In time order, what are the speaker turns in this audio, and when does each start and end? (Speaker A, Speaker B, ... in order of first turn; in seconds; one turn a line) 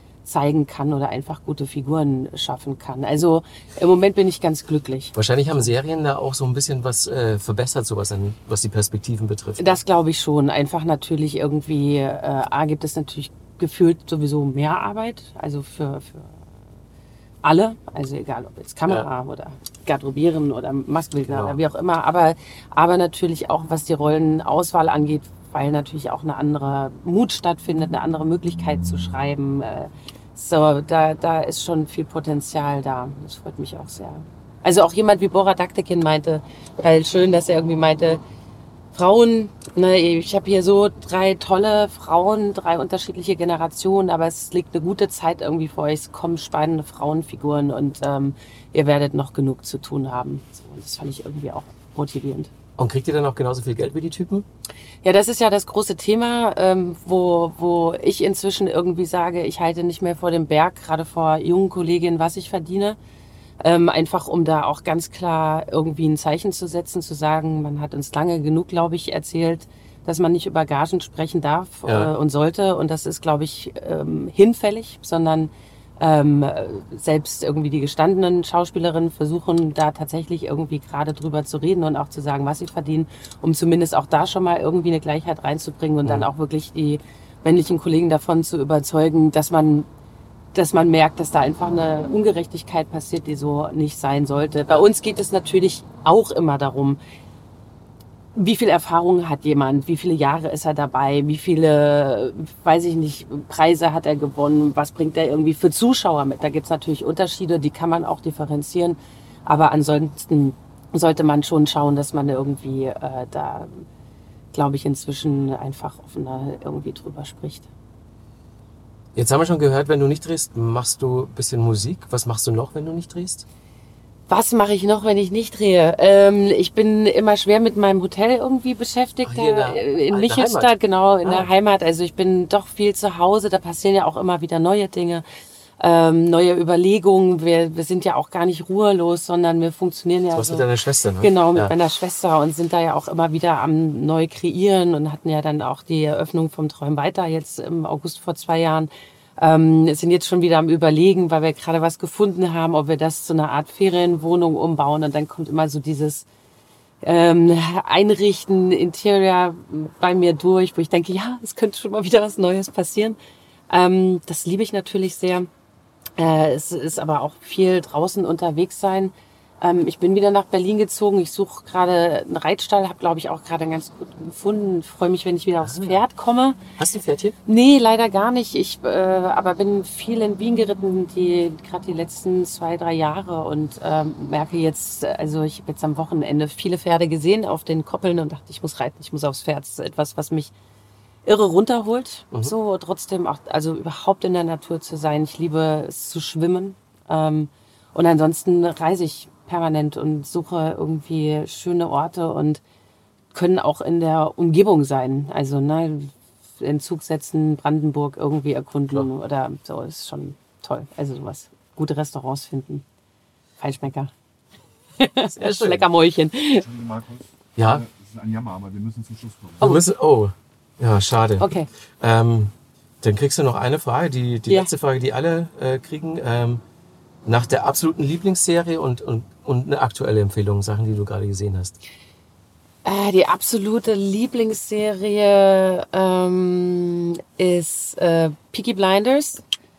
Speaker A: 0.2-5.1
Speaker B: 5.2-9.8
Speaker A: 9.6-16.3
Speaker A: 17.4-38.2
Speaker B: 21.3-21.6
Speaker A: 38.9-52.5
Speaker B: 52.8-54.5
Speaker A: 55.0-63.0
Speaker A: 63.6-89.9
Speaker B: 71.9-72.1
Speaker A: 90.5-97.0
Speaker A: 98.4-113.8
Speaker A: 114.5-117.7
Speaker B: 119.2-123.5
Speaker A: 124.3-135.2
Speaker B: 129.2-130.7
Speaker A: 135.8-140.7
Speaker B: 140.3-141.7
Speaker A: 141.2-156.3
Speaker A: 157.0-163.2
Speaker A: 163.7-165.5
Speaker A: 166.2-176.6
Speaker B: 175.6-176.0
Speaker B: 176.8-177.4
Speaker A: 177.5-190.5
Speaker A: 191.3-202.6
Speaker A: 203.3-212.8
Speaker A: 213.6-214.1
Speaker A: 215.0-216.6
Speaker B: 215.3-215.9
Speaker C: 216.6-219.8
Speaker B: 217.6-217.8
Speaker B: 219.6-226.6
Speaker A: 221.4-221.7
Speaker B: 227.2-231.8
Speaker A: 232.8-239.4